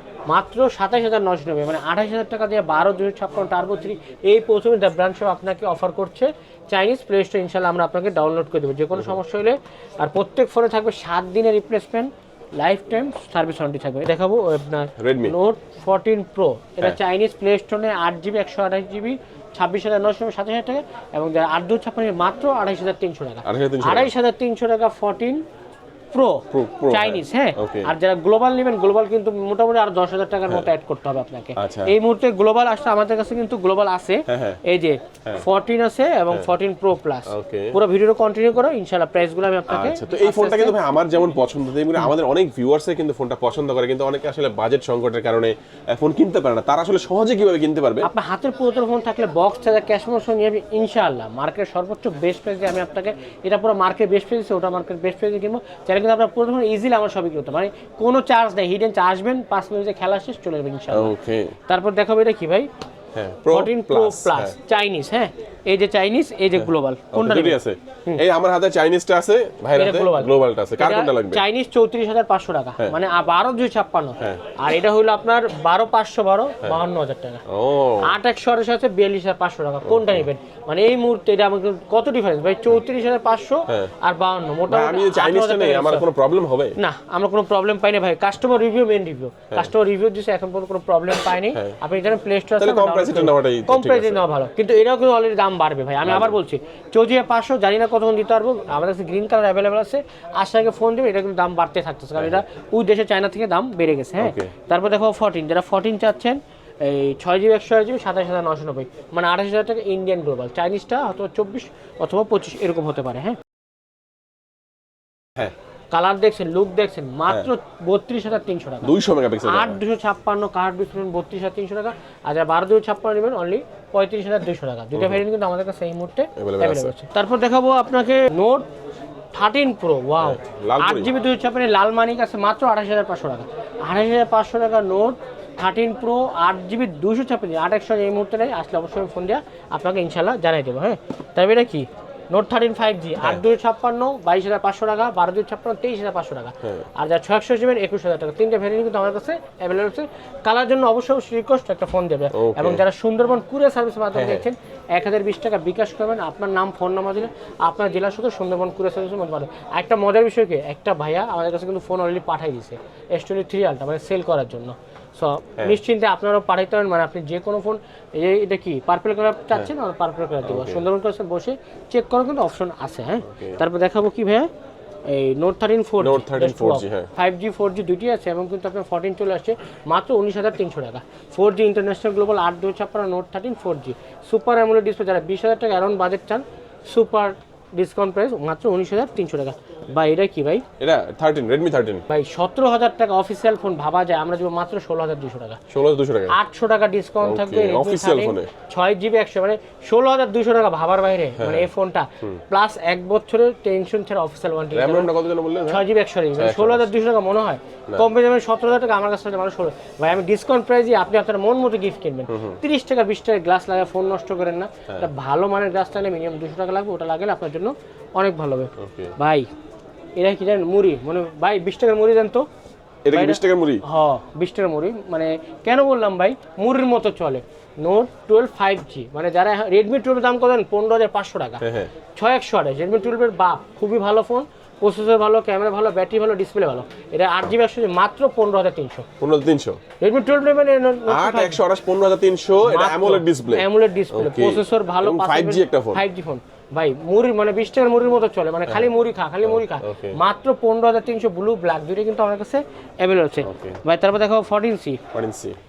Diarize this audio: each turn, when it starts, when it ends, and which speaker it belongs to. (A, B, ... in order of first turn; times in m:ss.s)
0:00.3-0:25.4 A
0:15.0-0:15.4 B
0:23.4-0:24.1 B
0:26.1-0:40.8 A
0:26.5-0:27.9 B
0:31.6-0:31.9 B
0:34.3-0:34.6 B
0:37.3-0:37.8 B
0:39.7-0:48.1 B
0:48.0-1:01.1 A
1:00.9-1:01.6 B
1:01.7-1:02.7 A
1:03.1-1:04.6 B
1:03.5-1:08.2 A
1:06.6-1:11.4 B
1:09.7-1:17.4 A
1:14.2-1:14.5 B
1:17.5-1:18.1 B
1:18.0-1:26.1 A
1:19.9-1:20.3 B
1:24.7-1:26.8 B
1:26.8-1:53.4 A
1:31.5-1:31.8 B
1:32.6-1:34.2 B
1:36.0-1:36.4 B
1:42.2-1:42.4 B
1:44.2-1:44.5 B
1:55.9-2:08.7 A
1:58.8-1:59.8 B
2:05.0-2:05.2 B
2:06.4-2:06.9 B
2:09.3-2:54.5 A
2:10.2-2:11.1 B
2:32.3-2:32.8 B
2:34.1-2:34.5 B
2:50.4-2:50.9 B
2:53.3-2:53.6 B
2:55.1-3:10.6 A
2:56.0-2:57.1 B
3:10.8-3:12.0 B
3:12.1-3:15.6 A
3:15.7-3:16.4 B
3:16.3-3:25.1 A
3:17.2-3:18.5 B
3:21.4-3:21.7 B
3:24.7-3:25.8 B
3:25.7-3:39.5 A
3:26.4-3:26.9 B
3:32.3-3:32.6 B
3:38.8-3:39.1 B
3:40.2-3:42.4 A
3:43.0-3:43.8 B
3:43.1-3:51.6 A
3:51.6-3:51.9 B
3:52.2-3:59.1 A
3:59.2-3:59.8 B
4:00.0-4:01.6 A
4:01.1-4:06.0 B
4:02.6-4:15.0 A
4:08.7-4:08.9 B
4:09.4-4:10.2 B
4:13.4-4:13.8 B
4:15.1-4:15.6 B